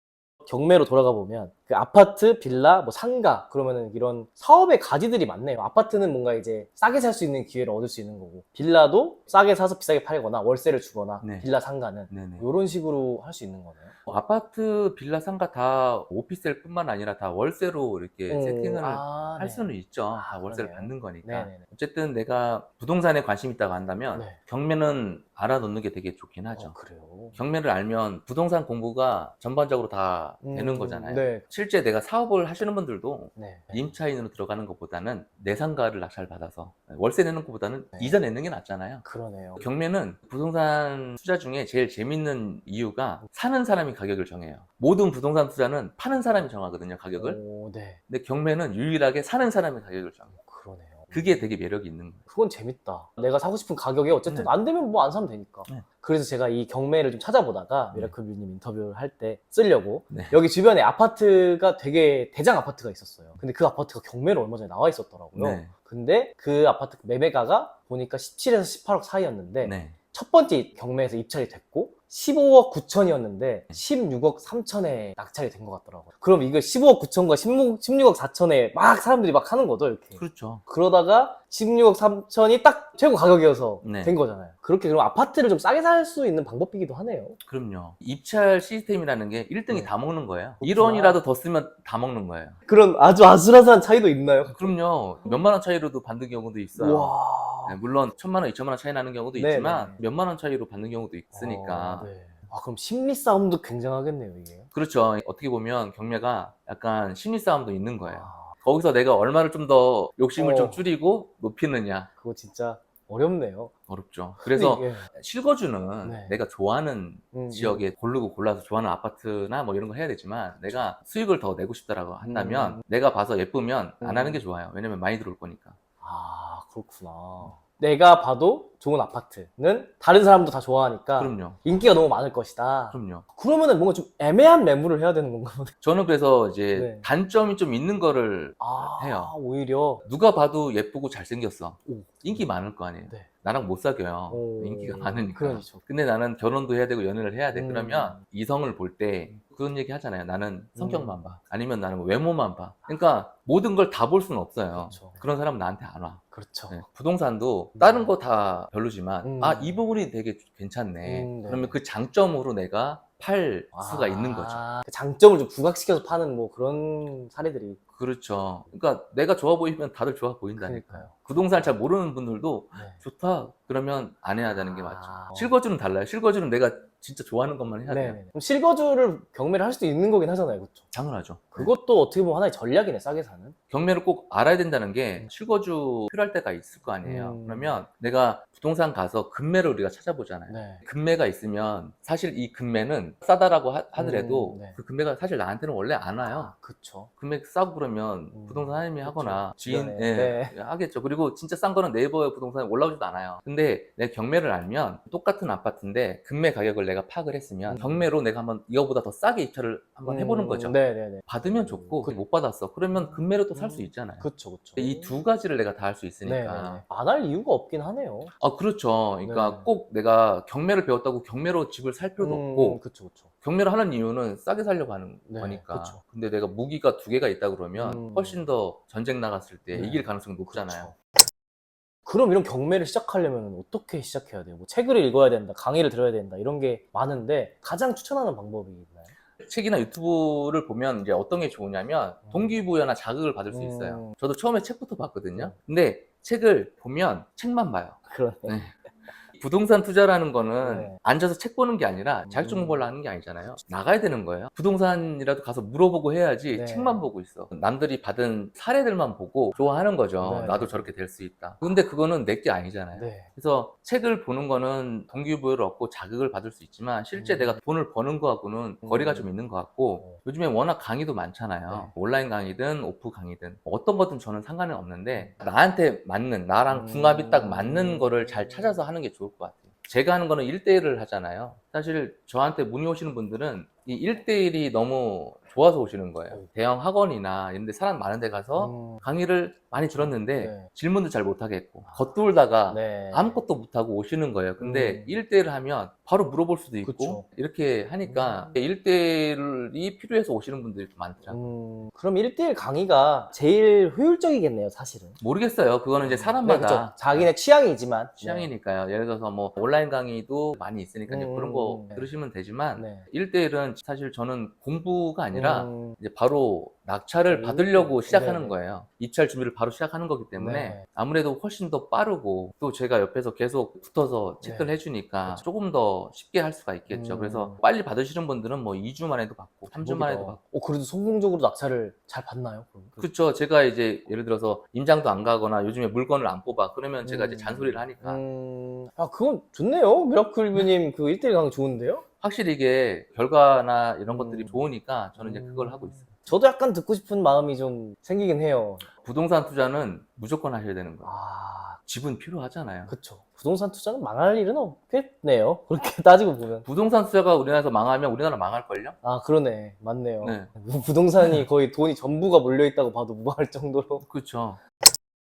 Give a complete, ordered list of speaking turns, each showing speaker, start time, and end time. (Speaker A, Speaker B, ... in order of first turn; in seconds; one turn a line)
Speaker A: 0.5-13.9
Speaker B: 11.2-11.5
Speaker B: 12.1-12.5
Speaker B: 14.1-26.8
Speaker A: 18.3-21.6
Speaker A: 24.1-24.4
Speaker A: 26.5-27.4
Speaker B: 27.3-39.0
Speaker A: 30.4-31.5
Speaker A: 33.4-34.0
Speaker A: 38.0-38.2
Speaker A: 39.0-39.6
Speaker B: 39.6-47.4
Speaker A: 47.2-48.0
Speaker B: 48.1-50.3
Speaker A: 50.3-51.5
Speaker B: 51.1-52.2
Speaker A: 52.3-87.4
Speaker B: 54.3-54.5
Speaker B: 60.1-60.4
Speaker B: 65.3-65.7
Speaker B: 69.6-70.0
Speaker B: 80.2-80.6
Speaker B: 83.8-84.2
Speaker B: 87.5-92.6
Speaker A: 89.7-89.9
Speaker A: 90.6-91.2
Speaker A: 92.7-95.4
Speaker B: 94.5-102.1
Speaker A: 96.8-97.8
Speaker A: 99.4-100.0
Speaker A: 101.3-104.7
Speaker B: 104.7-112.1
Speaker A: 108.0-108.5
Speaker A: 110.4-110.8
Speaker A: 112.2-113.7
Speaker B: 113.9-125.8
Speaker A: 114.4-115.1
Speaker A: 116.0-116.4
Speaker A: 117.3-117.9
Speaker A: 122.2-122.8
Speaker A: 124.0-124.5
Speaker A: 126.0-135.8
Speaker B: 131.2-131.6
Speaker B: 132.9-133.2
Speaker B: 135.8-139.3
Speaker A: 136.7-137.1
Speaker A: 138.6-140.1
Speaker B: 140.0-164.6
Speaker A: 141.9-142.6
Speaker A: 144.3-145.8
Speaker A: 147.5-148.2
Speaker A: 150.8-151.3
Speaker A: 154.7-155.2
Speaker A: 156.3-156.8
Speaker A: 157.8-158.1
Speaker A: 159.2-159.8
Speaker A: 161.0-161.8
Speaker A: 163.8-167.8
Speaker B: 168.0-178.2
Speaker A: 170.6-171.7
Speaker A: 172.7-173.0
Speaker A: 174.5-175.6
Speaker A: 177.8-180.9
Speaker B: 180.9-181.7
Speaker A: 181.5-183.6
Speaker B: 183.7-196.6
Speaker A: 187.0-187.8
Speaker A: 190.5-190.8
Speaker A: 194.0-194.8
Speaker A: 196.2-197.1
Speaker B: 197.2-216.8
Speaker A: 198.3-200.6
Speaker A: 207.7-208.1
Speaker A: 210.0-212.2
Speaker A: 212.9-215.2
Speaker A: 216.2-218.3
Speaker B: 218.4-222.8
Speaker A: 219.2-219.7
Speaker A: 222.2-223.3
Speaker B: 223.4-230.9
Speaker A: 225.3-226.0
Speaker A: 227.8-228.4
Speaker A: 229.7-230.9
Speaker A: 232.1-239.1
Speaker B: 239.4-301.4
Speaker A: 242.3-242.6
Speaker A: 243.5-244.1
Speaker A: 248.1-248.6
Speaker A: 250.6-251.0
Speaker A: 252.3-252.9
Speaker A: 256.5-257.0
Speaker A: 260.2-260.9
Speaker A: 262.9-263.3
Speaker A: 267.1-267.6
Speaker A: 268.8-269.3
Speaker A: 271.7-271.9
Speaker A: 275.2-275.4
Speaker A: 276.7-278.8
Speaker A: 288.6-289.1
Speaker A: 289.8-290.7
Speaker A: 291.9-292.1
Speaker A: 292.7-293.4
Speaker A: 294.6-295.2
Speaker A: 296.8-297.3
Speaker A: 298.0-298.6
Speaker A: 301.3-305.2
Speaker B: 305.2-307.3
Speaker A: 306.0-308.5
Speaker B: 308.2-330.4
Speaker A: 311.1-312.1
Speaker A: 312.8-313.1
Speaker A: 315.3-316.0
Speaker A: 317.3-318.6
Speaker A: 320.4-320.9
Speaker A: 324.4-325.4
Speaker A: 326.9-327.6
Speaker A: 329.7-333.1
Speaker B: 333.0-338.2
Speaker A: 337.0-342.0
Speaker B: 342.2-346.1
Speaker A: 344.1-348.9
Speaker B: 349.0-351.1
Speaker A: 351.0-351.8
Speaker B: 351.9-352.9
Speaker A: 352.9-356.7
Speaker B: 356.6-359.0
Speaker A: 359.0-364.1
Speaker B: 360.2-360.5
Speaker B: 364.0-364.6